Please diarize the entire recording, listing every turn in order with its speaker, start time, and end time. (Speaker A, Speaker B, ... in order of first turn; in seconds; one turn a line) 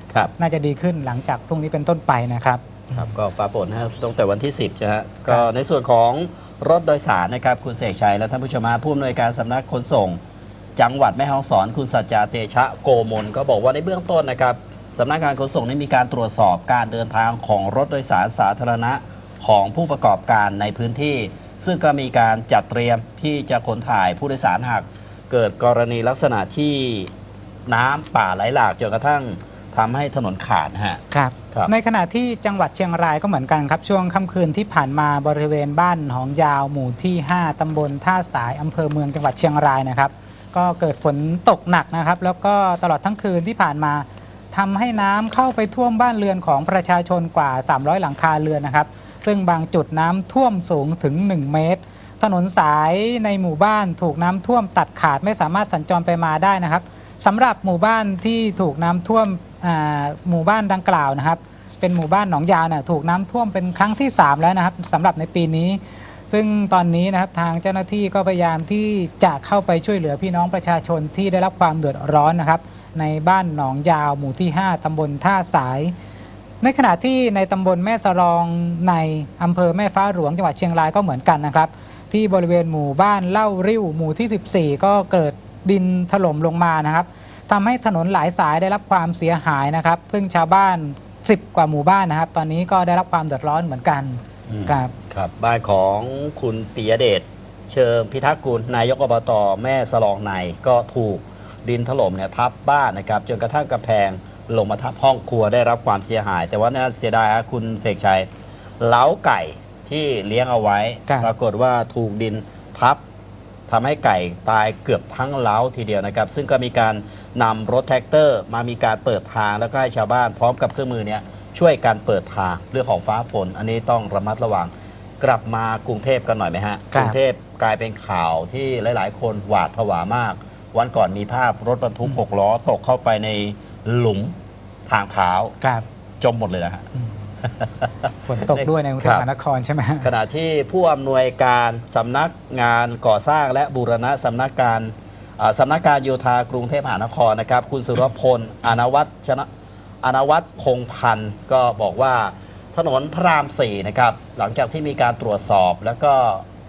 Speaker A: 0.4-2.9
Speaker B: 2.9-10.2
Speaker B: 10.8-27.1
Speaker B: 27.7-31.0
Speaker A: 31.1-75.9
Speaker A: 76.6-94.9
Speaker B: 94.5-108.3
Speaker B: 108.8-113.0
Speaker B: 113.7-134.3
Speaker A: 126.9-127.2
Speaker B: 134.9-135.5
Speaker B: 136.2-136.8
Speaker A: 138.2-140.1
Speaker B: 139.0-139.2
Speaker B: 140.0-149.5
Speaker B: 150.0-156.4